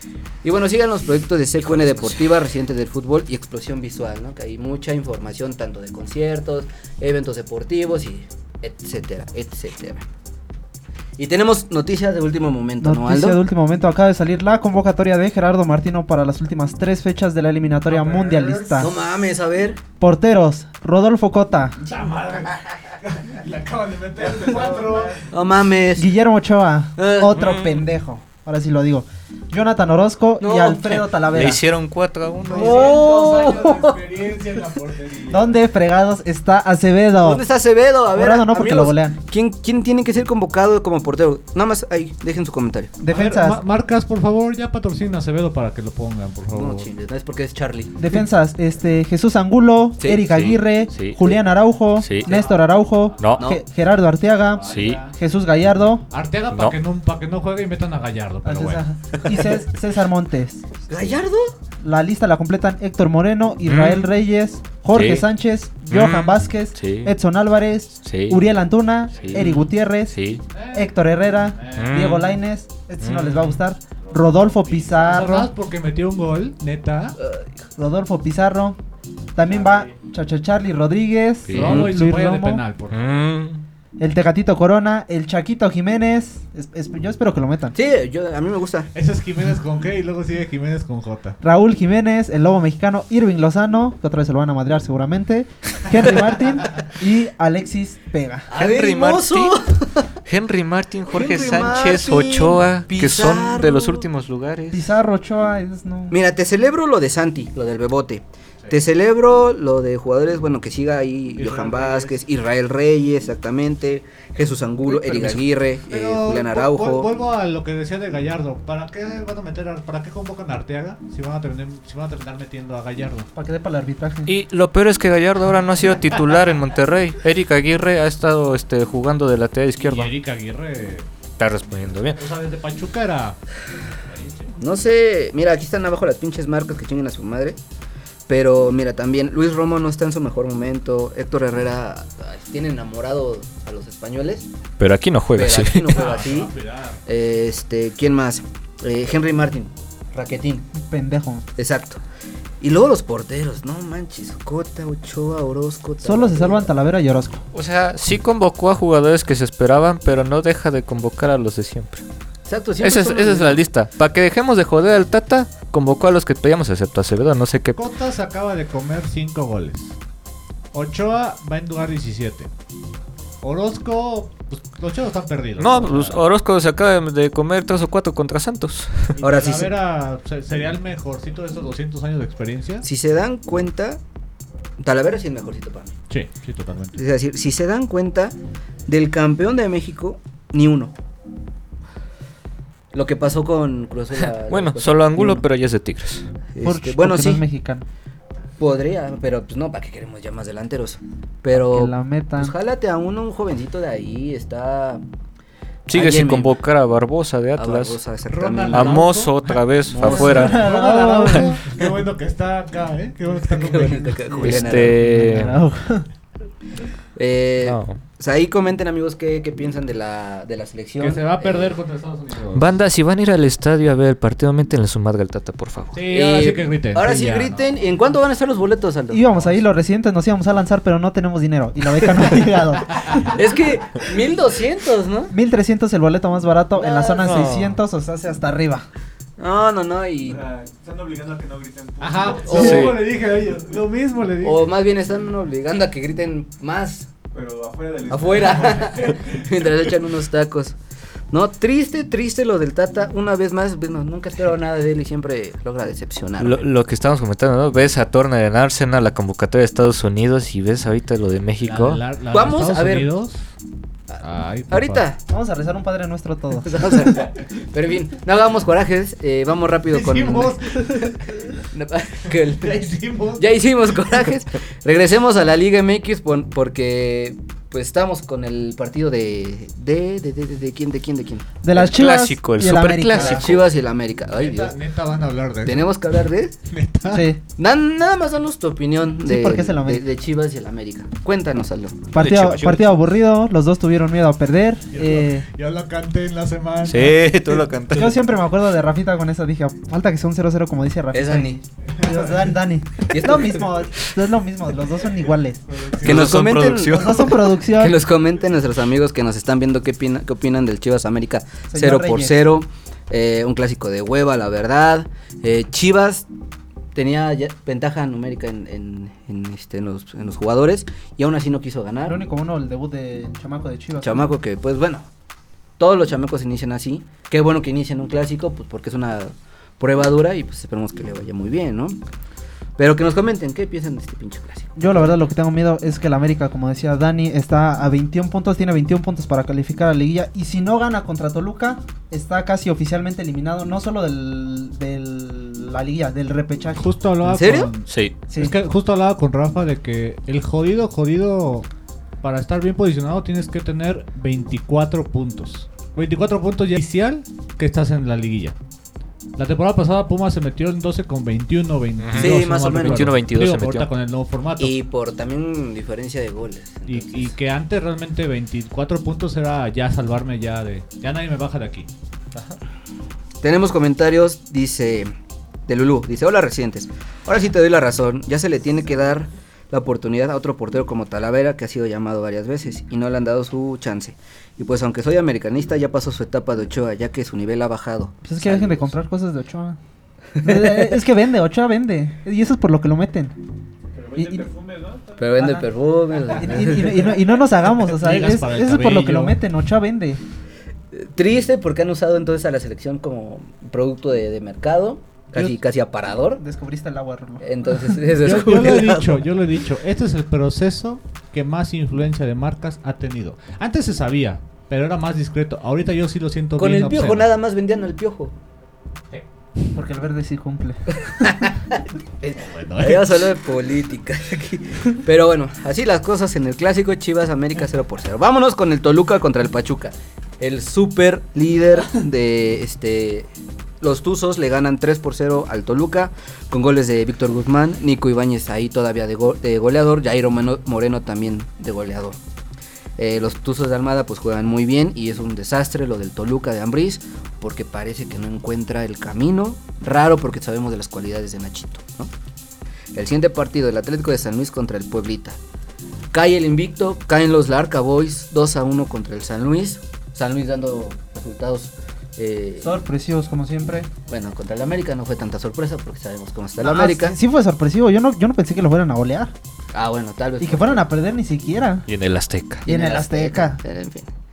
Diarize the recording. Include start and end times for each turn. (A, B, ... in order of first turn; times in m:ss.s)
0:00.4-0:10.0 A
0:01.6-0:02.3 B
0:11.2-0:13.4 A
0:12.8-0:18.9 C
0:17.9-0:18.9 D
0:18.8-0:19.8 A
0:20.0-0:21.8 C
0:21.8-0:25.2 D
0:24.2-0:25.2 E
0:25.3-0:26.1 A
0:26.0-0:31.6 C
0:27.0-0:27.3 A
0:27.3-0:27.8 B
0:30.4-0:31.0 A
0:31.2-0:32.8 B
0:32.4-0:35.6 D
0:32.5-0:34.0 A
0:35.3-0:37.4 C
0:37.2-0:42.9 A
0:38.1-0:39.2 C
0:43.0-0:43.6 C
0:43.1-0:46.9 D
0:46.5-0:48.2 A
0:48.0-0:56.0 C
0:50.0-0:50.2 A
0:50.2-0:51.4 B
0:52.0-0:52.3 B
0:52.2-0:52.8 D
0:54.5-0:55.2 D
0:54.7-0:55.0 B
0:56.1-0:58.8 D
0:58.4-1:00.6 C
1:00.9-1:01.5 A
1:01.8-1:10.2 C
1:03.6-1:04.1 B
1:04.9-1:05.2 B
1:05.9-1:07.1 B
1:08.0-1:08.4 B
1:09.1-1:09.6 D
1:09.2-1:09.6 B
1:10.1-1:10.4 B
1:10.5-1:12.3 D
1:10.7-1:15.5 C
1:11.8-1:12.2 B
1:13.0-1:13.6 B
1:14.0-1:17.2 D
1:17.2-1:17.5 A
1:17.8-1:18.8 C
1:19.3-1:22.6 C
1:19.5-1:19.9 D
1:21.5-1:21.9 B
1:21.5-1:23.0 D
1:22.9-1:23.6 B
1:24.0-1:27.8 C
1:27.7-1:28.9 A
1:28.9-1:31.4 D
1:31.4-1:38.5 C
1:38.5-1:40.1 A
1:38.5-1:39.6 B
1:40.2-1:44.8 B
1:41.1-1:44.1 A
1:44.7-1:46.2 C
1:46.1-1:57.1 A
1:51.3-1:52.2 D
1:54.8-2:03.3 D
2:03.3-2:04.3 C
2:04.2-2:10.1 B
2:09.8-2:11.1 D
2:11.4-2:12.2 B
2:12.2-2:13.4 D
2:14.0-2:14.5 D
2:14.6-2:17.6 A
2:18.3-2:24.5 A
2:24.8-2:26.0 B
2:25.3-2:26.5 A
2:25.8-2:27.0 D
2:27.0-2:30.7 A
2:30.7-2:31.4 C
2:31.6-2:32.0 A
2:32.6-2:36.7 A
2:36.0-2:37.4 C
2:37.5-2:42.0 B
2:42.4-2:43.6 A
2:42.8-2:47.8 B
2:47.7-2:49.9 D
2:50.7-2:52.5 D
2:53.4-2:56.2 D
2:55.6-2:59.2 B
2:59.1-3:02.8 D
2:59.2-2:59.7 A
3:02.8-3:04.0 A
3:04.8-3:05.9 A
3:06.1-3:07.0 D
3:06.9-3:08.3 A
3:08.9-3:10.9 A
3:12.9-3:15.4 A
3:14.5-3:16.3 B
3:16.5-3:17.4 A
3:16.6-3:17.8 C
3:18.6-3:25.0 A
3:21.5-3:22.5 C
3:25.9-3:28.0 B
3:25.9-3:26.6 A
3:27.6-3:29.0 A
3:28.3-3:34.7 D
3:28.7-3:30.6 B
3:29.9-3:30.6 A
3:30.0-3:31.6 C
3:33.4-3:35.0 A
3:34.3-3:36.1 C
3:34.4-3:35.6 B
3:37.2-3:41.8 A
3:37.6-3:38.0 B
3:41.0-3:42.7 D
3:42.5-3:46.0 B
3:45.9-3:47.6 D
3:46.1-3:49.3 A
3:49.1-3:53.2 C
3:53.2-3:55.3 A
3:55.3-3:58.9 C
3:56.8-3:57.5 A
3:57.2-3:57.8 B
3:59.4-4:00.4 A
4:00.2-4:02.9 E
4:02.0-4:04.6 D
4:02.5-4:03.0 B
4:04.4-4:07.1 A
4:07.3-4:09.3 E
4:08.1-4:10.8 A
4:11.3-4:16.7 A
4:16.4-4:22.0 B
4:21.6-4:23.5 D
4:22.3-4:23.1 A
4:24.1-4:25.2 A
4:24.2-4:25.0 D
4:25.3-4:27.1 C
4:26.6-4:31.2 A
4:29.9-4:31.4 D
4:31.7-4:41.6 A
4:32.3-4:33.4 D
4:41.6-4:43.5 C
4:41.7-4:43.6 B
4:43.2-4:44.8 A
4:44.3-4:46.0 D
4:45.6-4:46.5 A
4:46.7-4:47.3 D
4:47.1-4:47.4 C
4:47.6-4:52.1 A
4:49.2-4:50.0 C
4:52.1-4:55.5 C
4:52.2-4:52.9 B
4:54.9-4:58.1 D
4:56.8-4:58.2 B
4:58.0-5:05.6 C
5:01.1-5:01.6 A
5:03.1-5:03.7 A
5:05.7-5:06.3 D
5:06.0-5:16.2 A
5:06.0-5:07.4 B
5:06.9-5:08.0 C
5:11.7-5:12.4 C
5:16.9-5:22.2 A
5:22.0-5:24.3 C
5:24.0-5:25.1 A
5:25.8-5:32.0 A
5:32.8-5:35.1 A
5:34.8-5:46.9 C
5:46.8-5:51.7 D
5:47.2-5:47.7 A
5:47.9-5:48.1 B
5:48.3-5:48.6 C
5:52.2-5:58.6 D
5:59.4-6:04.7 D
6:02.0-6:03.9 B
6:02.1-6:03.1 A
6:04.6-6:07.3 A
6:06.9-6:11.9 D
6:13.4-6:15.1 A
6:15.7-6:28.9 A
6:28.2-6:29.8 C
6:30.3-6:31.0 A
6:30.4-6:33.4 C
6:33.9-6:35.6 E
6:34.2-6:34.4 C
6:35.2-6:37.1 A
6:36.3-6:40.2 C
6:37.7-6:39.4 D
6:40.9-6:46.4 A
6:46.4-6:48.0 C
6:47.4-6:49.2 A
6:48.2-6:57.3 D
6:56.6-6:58.3 A
6:59.7-7:01.3 C
7:01.1-7:13.3 A
7:02.4-7:03.2 D
7:13.8-7:22.2 A
7:23.0-7:32.1 A
7:32.9-7:35.4 A
7:36.1-7:42.7 A
7:42.6-7:43.9 C
7:44.1-7:47.2 A
7:46.6-7:49.3 C
7:49.7-7:50.8 A
7:50.4-7:51.9 C
7:51.9-7:52.6 B
7:52.6-7:53.6 C
7:52.6-7:54.1 A